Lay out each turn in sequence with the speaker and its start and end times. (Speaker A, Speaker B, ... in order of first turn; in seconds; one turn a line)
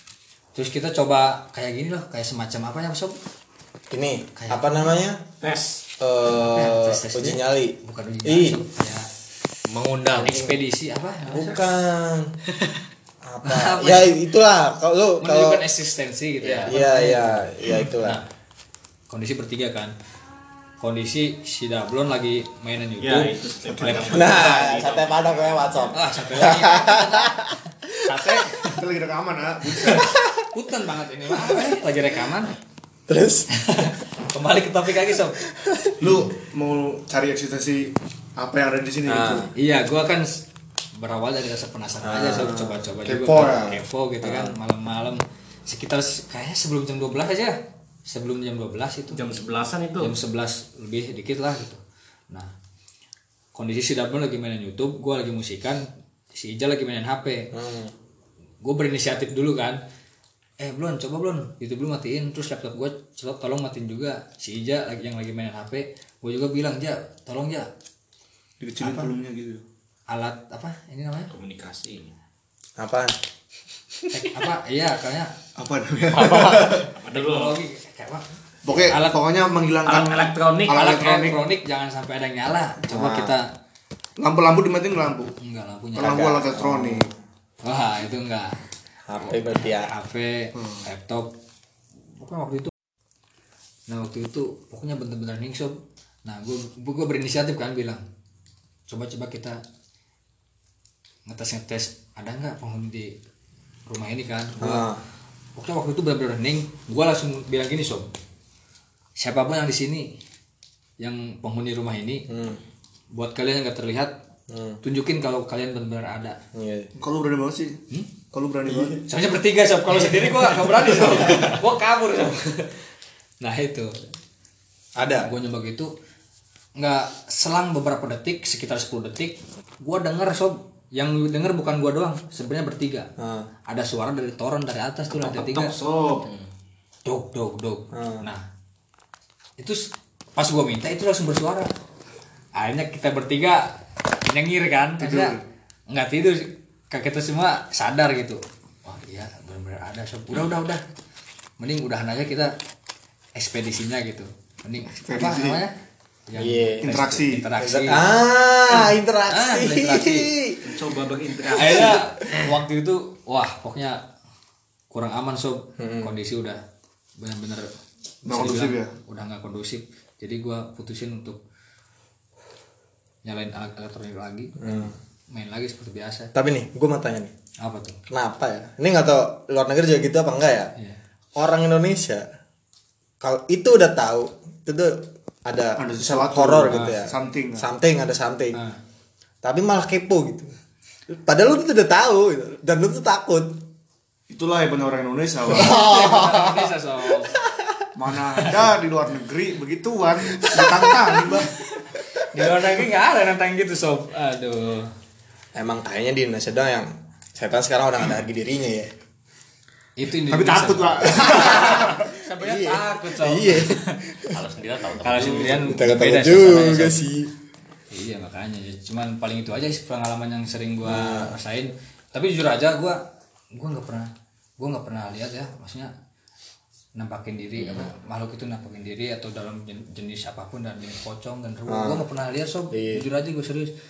Speaker A: 0.5-3.1
Speaker B: 3.9-5.2
Speaker A: 4.3-4.9
Speaker C: 5.4-5.8
Speaker B: 6.0-8.6
Speaker A: 6.3-9.1
Speaker D: 9.7-10.3
Speaker A: 10.2-11.7
Speaker B: 10.2-10.6
Speaker B: 11.3-12.3
Speaker B: 13.2-15.6
Speaker A: 13.4-14.1
Speaker A: 15.2-18.2
Speaker D: 16.4-16.8
Speaker B: 16.7-18.2
Speaker A: 19.1-19.9
Speaker A: 20.8-24.4
Speaker C: 23.0-25.9
Speaker E: 23.7-24.2
Speaker B: 23.9-28.4
Speaker A: 25.9-27.4
Speaker A: 28.1-28.8
Speaker E: 28.8-30.0
Speaker A: 29.8-32.5
Speaker B: 29.9-30.4
Speaker B: 31.4-31.8
Speaker B: 33.1-33.5
Speaker A: 33.7-35.4
Speaker B: 35.5-36.0
Speaker E: 36.0-39.5
Speaker B: 39.0-39.5
Speaker A: 39.5-40.4
Speaker A: 41.0-47.5
Speaker B: 42.0-44.5
Speaker E: 43.0-43.7
Speaker A: 48.1-49.3
Speaker C: 49.1-50.1
Speaker A: 50.0-51.8
Speaker A: 53.5-55.8
Speaker A: 56.3-57.5
Speaker B: 57.5-57.9
Speaker A: 58.6-59.8
Speaker A: 60.6-67.7
Speaker E: 68.6-69.6
Speaker B: 68.8-69.1
Speaker A: 70.1-71.3
Speaker C: 71.3-72.1
Speaker B: 72.8-73.1
Speaker A: 74.1-75.3
Speaker E: 75.6-76.9
Speaker D: 76.3-76.7
Speaker C: 76.8-77.6
Speaker A: 77.2-79.2
Speaker E: 78.6-81.4
Speaker C: 79.8-80.9
Speaker A: 80.7-83.4
Speaker B: 82.9-83.3
Speaker E: 84.2-85.3
Speaker A: 85.1-86.3
Speaker E: 86.0-87.1
Speaker B: 86.0-87.1
Speaker A: 87.6-88.6
Speaker B: 89.1-89.9
Speaker A: 89.2-91.3
Speaker E: 90.5-90.8
Speaker A: 92.2-92.7
Speaker A: 93.9-98.0
Speaker A: 98.9-99.6
Speaker A: 101.3-103.1
Speaker A: 103.9-104.9
Speaker B: 104.6-105.0
Speaker A: 105.5-108.1
Speaker A: 109.2-110.1
Speaker A: 111.0-112.2
Speaker B: 112.3-112.6
Speaker A: 113.1-114.1
Speaker B: 114.5-114.8
Speaker A: 114.8-116.4
Speaker B: 116.5-116.9
Speaker E: 117.0-117.8
Speaker E: 118.3-119.0
Speaker A: 119.1-122.7
Speaker A: 123.4-123.9
Speaker B: 125.0-125.3
Speaker A: 125.2-125.9
Speaker A: 126.8-133.1
Speaker B: 133.2-133.5
Speaker A: 133.7-135.7
Speaker C: 135.1-136.3
Speaker A: 137.0-138.4
Speaker B: 137.9-138.3
Speaker A: 139.6-141.7
Speaker A: 142.6-143.6
Speaker A: 144.3-145.3
Speaker E: 145.0-145.4
Speaker A: 145.9-150.8
Speaker A: 151.6-152.5
Speaker A: 153.3-155.7
Speaker E: 155.1-155.6
Speaker A: 156.3-158.3
Speaker B: 156.3-156.9
Speaker E: 156.8-157.4
Speaker B: 157.6-160.6
Speaker A: 159.3-160.3
Speaker C: 160.6-162.0
Speaker A: 161.5-164.0
Speaker B: 161.5-162.0
Speaker A: 164.9-166.6
Speaker B: 165.8-166.1
Speaker A: 167.2-167.7
Speaker E: 168.2-168.9
Speaker A: 168.3-171.4
Speaker A: 173.2-176.3
Speaker B: 174.6-174.9
Speaker B: 176.3-177.3
Speaker A: 177.6-178.0
Speaker B: 178.1-180.7
Speaker B: 181.3-182.2
Speaker B: 183.2-188.6
Speaker E: 185.8-187.6
Speaker A: 186.7-187.0
Speaker B: 189.4-190.5
Speaker B: 191.1-193.6
Speaker E: 194.3-195.8
Speaker B: 195.5-196.7
Speaker A: 195.5-197.3
Speaker B: 197.3-197.6
Speaker E: 197.9-201.5
Speaker A: 200.3-200.7
Speaker A: 201.3-204.9
Speaker B: 205.5-208.9
Speaker A: 210.0-213.9
Speaker E: 210.3-212.0
Speaker B: 212.4-214.4
Speaker D: 214.3-215.7
Speaker A: 215.0-217.0
Speaker B: 215.7-217.3
Speaker A: 217.9-223.0
Speaker B: 220.8-221.3
Speaker A: 223.5-225.9
Speaker A: 226.9-233.7
Speaker D: 227.6-227.9
Speaker B: 231.7-232.1
Speaker B: 232.7-233.0